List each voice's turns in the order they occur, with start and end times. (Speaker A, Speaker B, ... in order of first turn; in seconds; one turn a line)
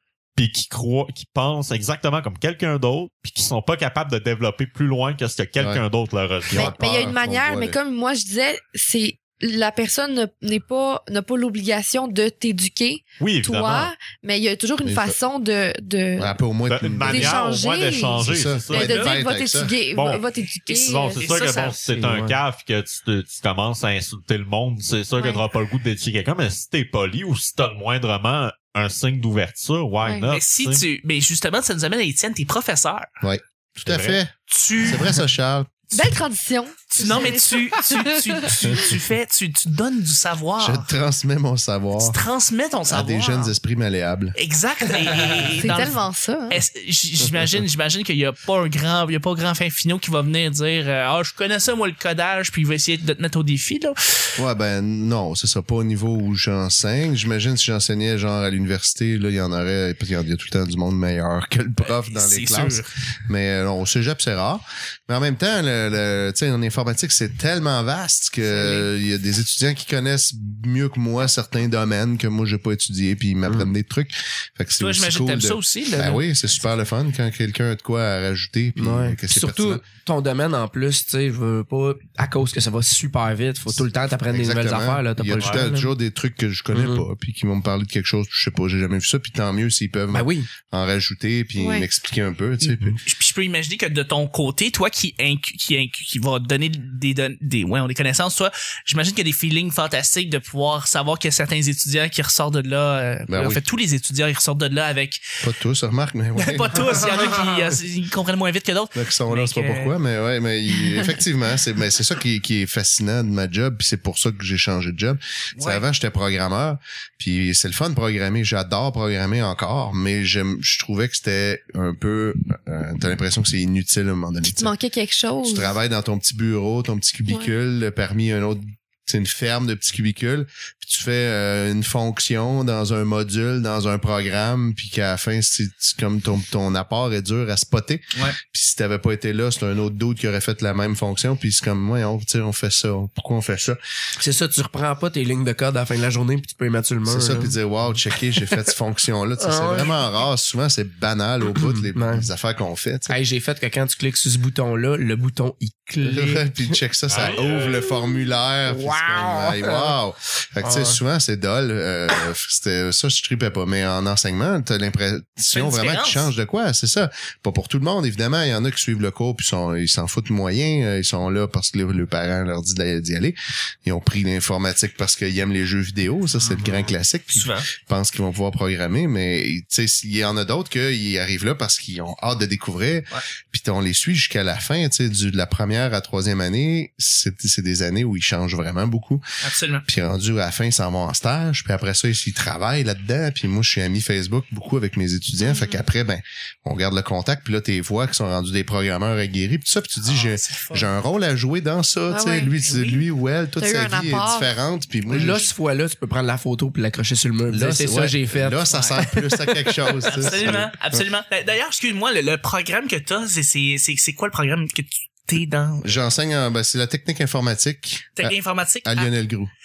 Speaker A: 0.3-6.8
Speaker B: 6.5-7.8
Speaker C: 6.5-16.4
Speaker A: 13.2-13.9
Speaker B: 14.8-15.2
Speaker B: 16.2-17.6
Speaker A: 16.7-19.2
Speaker C: 17.1-21.2
Speaker B: 18.2-19.8
Speaker D: 18.7-19.1
Speaker A: 19.9-30.8
Speaker D: 21.2-21.8
Speaker E: 21.8-22.4
Speaker C: 25.2-25.4
Speaker C: 30.0-30.3
Speaker D: 30.3-33.1
Speaker B: 33.2-35.9
Speaker A: 33.9-34.2
Speaker D: 34.5-35.2
Speaker C: 35.9-38.8
Speaker D: 36.9-40.9
Speaker B: 40.6-42.2
Speaker D: 42.0-43.5
Speaker B: 42.9-44.4
Speaker D: 44.4-54.0
Speaker C: 45.6-46.6
Speaker B: 54.4-79.8
Speaker D: 62.0-62.9
Speaker D: 68.5-68.9
Speaker D: 74.8-76.3
Speaker E: 78.8-85.9
Speaker B: 84.3-93.0
Speaker A: 85.4-85.7
Speaker E: 86.7-87.0
Speaker E: 90.1-90.5
Speaker C: 91.6-91.9
Speaker D: 92.6-105.2
Speaker B: 103.3-103.6
Speaker B: 105.4-107.0
Speaker D: 106.4-109.9
Speaker B: 109.0-124.7
Speaker D: 115.6-115.8
Speaker C: 124.5-125.7
Speaker B: 125.5-143.8
Speaker E: 144.2-147.6
Speaker B: 147.1-153.2
Speaker E: 149.4-149.9
Speaker E: 151.6-152.3
Speaker E: 153.1-156.8
Speaker B: 156.0-189.2
Speaker A: 157.1-157.8
Speaker E: 158.7-159.9
Speaker E: 160.6-161.0
Speaker D: 165.5-166.3
Speaker D: 177.3-177.7
Speaker D: 189.4-189.9
Speaker B: 189.8-205.4
Speaker C: 195.4-195.8
Speaker D: 200.1-200.9
Speaker C: 202.1-202.5
Speaker D: 202.6-203.0
Speaker C: 203.6-204.6
Speaker E: 205.1-208.7
Speaker D: 205.1-205.4
Speaker B: 207.5-211.0
Speaker D: 208.7-209.0
Speaker D: 210.0-216.0
Speaker B: 215.8-219.5
Speaker D: 218.2-219.1